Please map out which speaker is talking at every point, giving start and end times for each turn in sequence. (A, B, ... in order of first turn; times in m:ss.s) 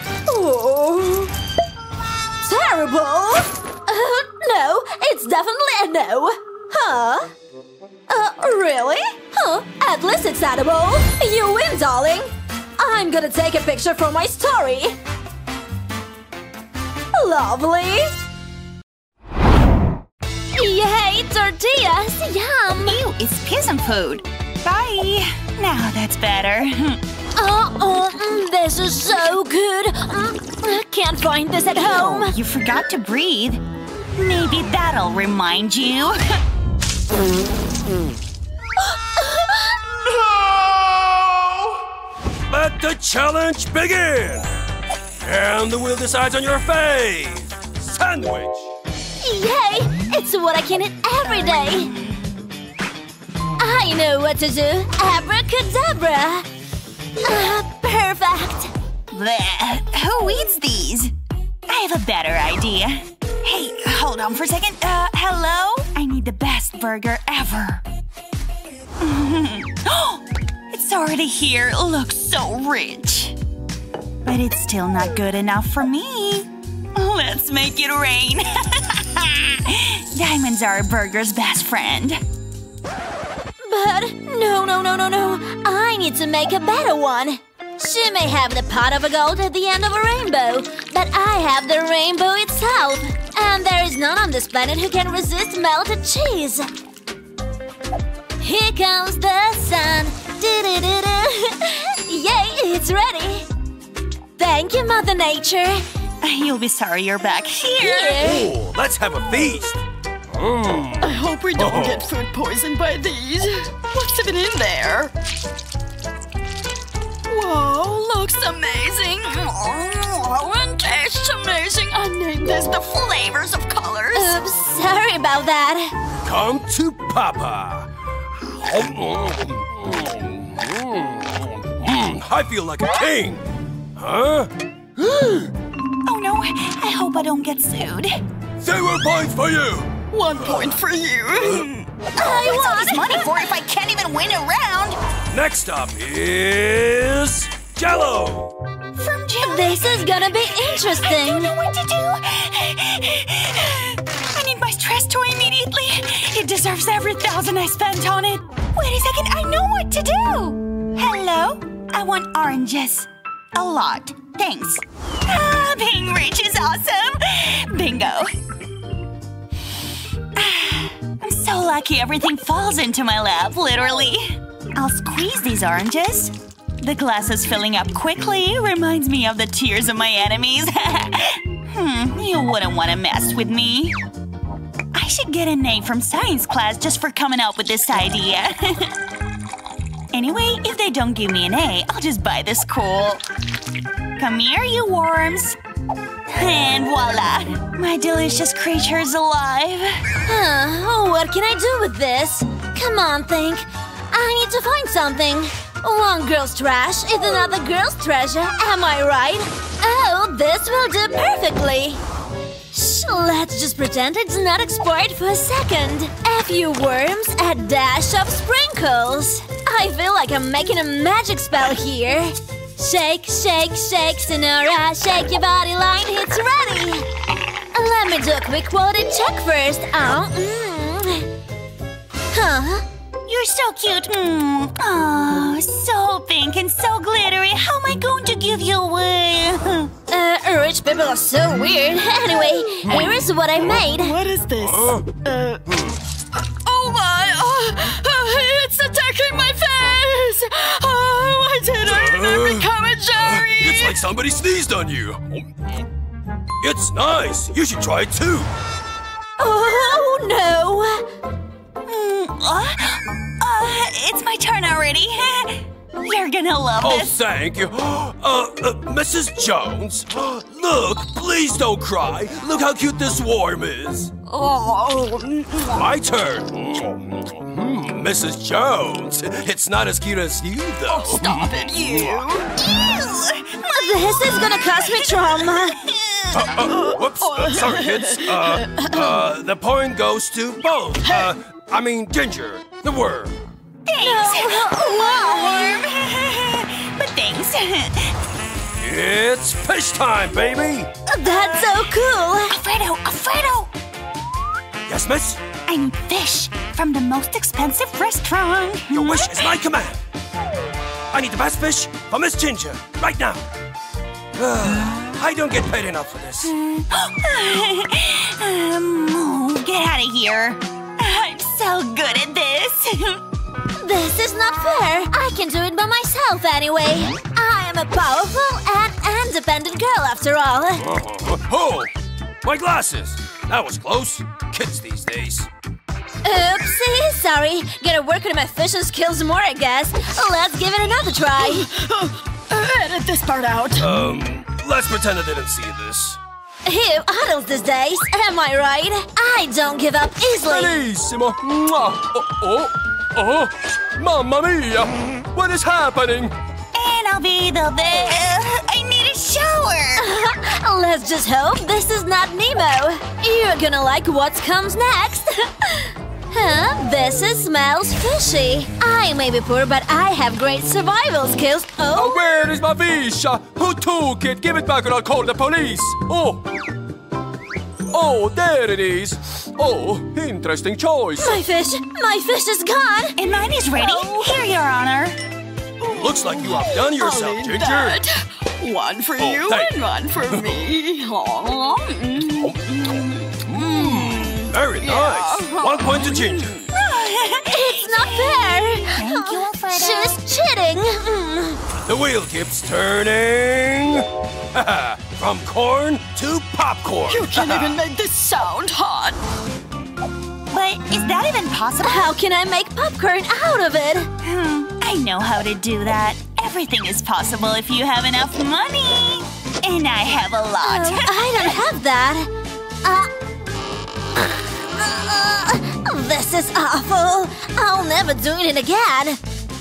0:00.3-0:01.3 A
0:02.4-0:07.3 A
0:08.1-0:15.0 A
0:17.1-0:18.1 A
0:20.6-0:23.0 A
0:22.8-0:27.0 B
0:27.4-0:32.4 A
0:31.8-0:33.6 B
0:34.2-0:36.2 B
0:39.2-0:39.6 A
0:42.5-0:44.5 C
0:45.2-0:48.7 C
0:49.2-0:51.9 A
0:53.6-0:56.5 A
0:57.2-0:58.7 A
0:59.1-1:01.1 B
1:01.7-1:07.8 B
1:09.0-1:10.2 B
1:10.7-1:13.3 B
1:14.3-1:16.5 B
1:17.0-1:18.4 B
1:20.2-1:22.2 B
1:23.6-1:36.7 A
1:38.4-1:43.5 A
1:44.4-1:45.8 A
1:46.2-1:48.3 B
1:47.8-1:48.5 A
1:48.2-1:49.8 C
1:50.3-1:52.0 C
1:51.0-1:55.1 D
1:57.3-2:04.4 D
2:04.1-2:05.9 A
2:06.2-2:07.9 C
2:08.4-2:13.4 C
2:14.0-2:15.5 C
2:16.1-2:18.1 B
2:18.6-2:19.9 C
2:20.1-2:21.9 D
2:22.2-2:23.3 A
2:22.2-2:25.0 B
2:25.3-2:28.5 C
2:29.0-2:30.1 B
2:29.4-2:31.5 A
2:30.7-2:33.4 B
2:34.4-2:48.3 B
2:50.4-2:54.2 B
2:54.8-2:56.3 B
2:56.8-3:01.0 B
3:01.8-3:03.9 B
3:05.0-3:08.5 B
3:10.1-3:13.2 B
3:14.2-3:15.6 B
3:16.4-3:19.8 B
3:20.3-3:32.0 A
3:32.7-3:47.1 A
3:47.7-3:51.3 A
3:52.3-3:52.8 A
3:53.3-3:59.6 B
4:00.1-4:04.2 A
4:03.9-4:05.6 D
4:04.6-4:05.0 C
4:06.6-4:14.0 D
4:11.8-4:12.7 C
4:13.3-4:15.6 C
4:16.6-4:18.5 C
4:19.4-4:21.1 A
4:22.0-4:27.2 B
4:26.8-4:34.1 C
4:34.3-4:35.9 D
4:35.7-4:42.2 C
4:40.9-4:42.5 D
4:43.6-4:45.8 A
4:46.3-4:53.3 C
4:46.7-4:49.2 D
4:54.0-4:55.8 A
4:54.0-4:56.4 B
4:57.0-4:57.9 B
4:58.8-5:00.9 C
5:01.1-5:02.6 A
5:01.3-5:01.8 B
5:02.5-5:03.7 B
5:04.9-5:05.4 C
5:05.7-5:09.6 B
5:08.9-5:10.0 C
5:11.1-5:13.4 C
5:14.4-5:16.5 C
5:16.8-5:22.8 B
5:23.8-5:30.8 A
5:30.8-5:31.9 C
5:32.4-5:35.5 C
5:36.2-5:41.7 A
5:41.4-5:43.9 D
5:43.8-5:46.2 C
5:46.6-5:50.8 A
5:50.3-5:56.3 C
5:56.8-5:59.8 B
6:00.0-6:12.4 A
6:11.9-6:16.4 C
6:17.9-6:21.4 C
6:21.2-6:23.2 A
6:23.2-6:25.1 B
6:23.8-6:24.3 A
6:25.8-6:32.7 D
6:25.9-6:28.0 C
6:29.2-6:29.7 C
6:32.4-6:32.9 C
6:33.4-6:36.5 C
6:33.6-6:36.7 D
6:37.5-6:41.6 A
6:37.6-6:40.2 B
6:41.8-6:47.7 C
6:47.1-6:49.2 D
6:50.6-6:52.1 B
6:51.8-6:54.1 A
6:54.4-7:00.0 B
7:00.6-7:02.3 A
7:00.6-7:01.5 B
7:02.8-7:03.1 A
7:04.2-7:09.2 A